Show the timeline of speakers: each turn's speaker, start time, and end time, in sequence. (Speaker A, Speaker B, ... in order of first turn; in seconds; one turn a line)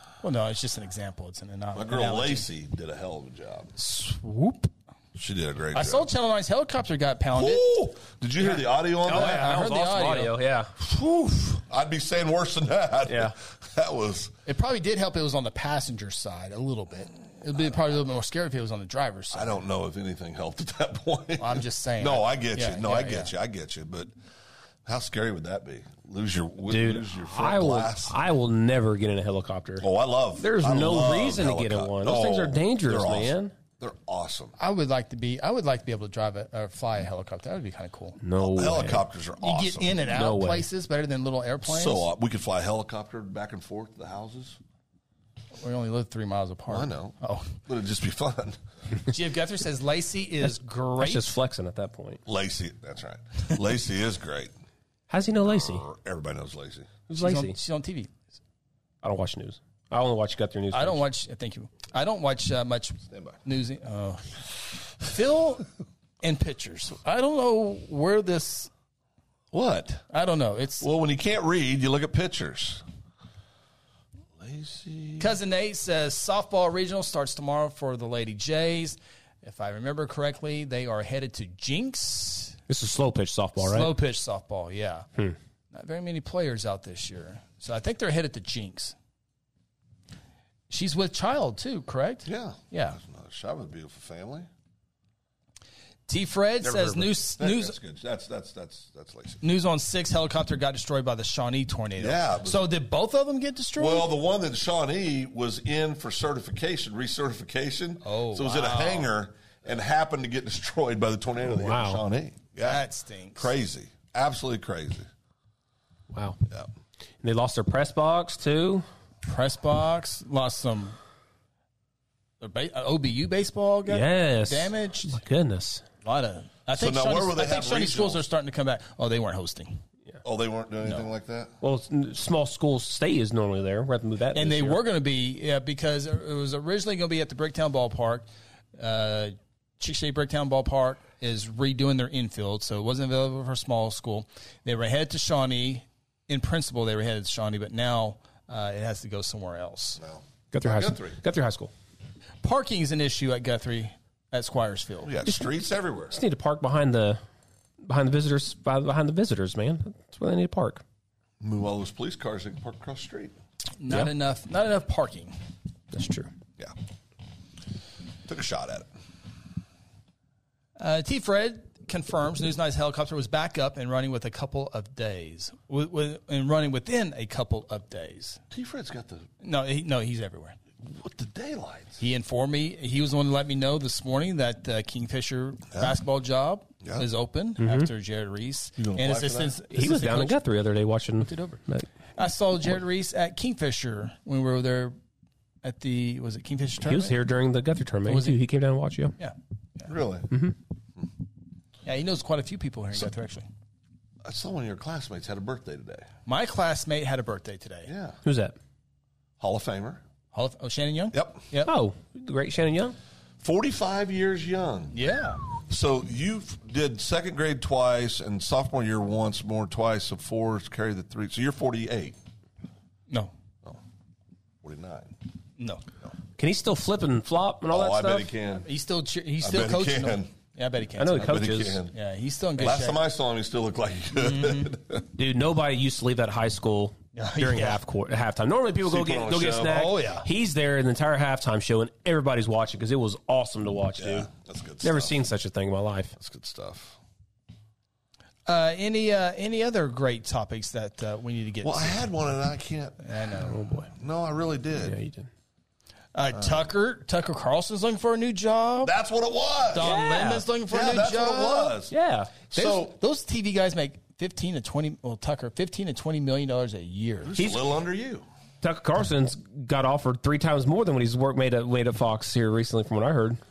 Speaker A: 0.2-2.5
Speaker B: 1.7-3.7
Speaker A: 3.8-4.7
Speaker B: 5.2-6.1
Speaker A: 5.7-7.7
Speaker B: 7.3-9.4
Speaker A: 8.4-10.3
Speaker C: 9.1-10.8
Speaker B: 10.9-14.3
Speaker C: 13.1-13.3
Speaker A: 14.5-19.6
Speaker B: 19.3-24.1
Speaker A: 21.4-23.3
Speaker B: 24.9-28.2
Speaker C: 26.7-29.9
Speaker B: 29.8-34.5
Speaker C: 30.4-33.5
Speaker A: 34.6-38.2
Speaker C: 38.2-39.0
Speaker B: 38.4-40.0
Speaker A: 39.4-42.1
Speaker C: 40.1-40.7
Speaker B: 41.6-44.6
Speaker A: 45.6-47.6
Speaker B: 46.7-48.6
Speaker A: 49.1-51.4
Speaker C: 51.0-52.2
Speaker B: 52.2-54.5
Speaker C: 55.1-55.9
Speaker B: 55.5-57.0
Speaker C: 57.1-57.6
Speaker A: 57.2-58.2
Speaker C: 59.0-61.0
Speaker A: 60.7-64.4
Speaker B: 63.1-63.4
Speaker A: 65.0-65.7
Speaker A: 66.2-68.7
Speaker B: 69.5-70.0
Speaker A: 70.1-70.9
Speaker B: 70.8-72.8
Speaker B: 74.4-75.3
Speaker A: 75.2-82.6
Speaker C: 82.7-83.9
Speaker A: 83.6-85.1
Speaker A: 85.7-89.0
Speaker A: 90.7-93.0
Speaker B: 92.2-94.5
Speaker A: 96.1-97.8
Speaker C: 96.6-97.1
Speaker B: 97.4-99.4
Speaker A: 99.4-104.1
Speaker B: 102.0-102.7
Speaker B: 103.8-112.8
Speaker A: 108.0-109.1
Speaker C: 111.6-112.0
Speaker A: 112.6-113.5
Speaker B: 113.3-115.1
Speaker C: 116.1-116.4
Speaker C: 117.2-118.8
Speaker A: 119.2-121.0
Speaker A: 122.4-125.2
Speaker C: 123.9-125.8
Speaker A: 126.0-129.8
Speaker B: 126.7-128.2
Speaker B: 130.2-131.6
Speaker C: 131.6-134.8
Speaker A: 134.3-150.0
Speaker B: 150.0-151.2
Speaker C: 150.5-151.7
Speaker A: 152.4-155.1
Speaker B: 155.0-156.2
Speaker C: 156.1-157.2
Speaker C: 157.9-160.8
Speaker B: 161.4-163.3
Speaker A: 163.8-165.3
Speaker C: 165.9-166.3
Speaker B: 168.3-168.9
Speaker A: 170.8-178.4
Speaker B: 178.5-179.3
Speaker A: 179.4-180.6
Speaker B: 180.8-182.0
Speaker A: 182.0-190.4
Speaker C: 187.6-187.9
Speaker B: 188.8-189.6
Speaker C: 189.7-191.9
Speaker A: 191.2-191.6
Speaker A: 192.2-195.0
Speaker A: 195.6-197.2
Speaker C: 196.8-199.2
Speaker A: 198.1-198.4
Speaker A: 199.2-199.9
Speaker B: 199.9-200.3
Speaker A: 201.8-203.5
Speaker B: 204.2-206.1
Speaker A: 206.3-207.9
Speaker B: 207.9-208.2
Speaker C: 208.2-208.6
Speaker B: 209.4-210.0
Speaker A: 210.3-211.7
Speaker B: 211.1-211.4
Speaker C: 211.7-213.0
Speaker B: 213.4-214.9
Speaker A: 214.9-215.4
Speaker B: 215.7-222.2
Speaker B: 224.6-225.1
Speaker A: 225.6-225.8
Speaker C: 226.4-228.3
Speaker B: 227.7-228.7
Speaker A: 228.6-233.0
Speaker B: 229.4-230.3
Speaker C: 231.0-231.8
Speaker B: 231.2-231.9
Speaker B: 232.6-235.1
Speaker A: 234.2-234.8
Speaker C: 235.2-244.3
Speaker A: 237.2-237.8
Speaker B: 238.8-239.9
Speaker A: 239.7-240.3
Speaker B: 244.0-245.2
Speaker C: 244.8-246.1
Speaker B: 246.2-247.0
Speaker A: 248.5-252.1
Speaker B: 251.6-253.1
Speaker A: 253.0-253.6
Speaker C: 253.4-253.9
Speaker B: 254.0-255.0
Speaker C: 254.8-255.3
Speaker A: 256.1-258.9
Speaker B: 256.3-256.7
Speaker B: 258.8-259.9
Speaker A: 259.7-261.8
Speaker C: 259.8-260.5
Speaker B: 260.7-261.9
Speaker C: 261.9-262.3
Speaker B: 262.5-262.9
Speaker A: 262.5-267.4
Speaker B: 267.2-268.3
Speaker C: 267.4-267.6
Speaker C: 268.6-273.4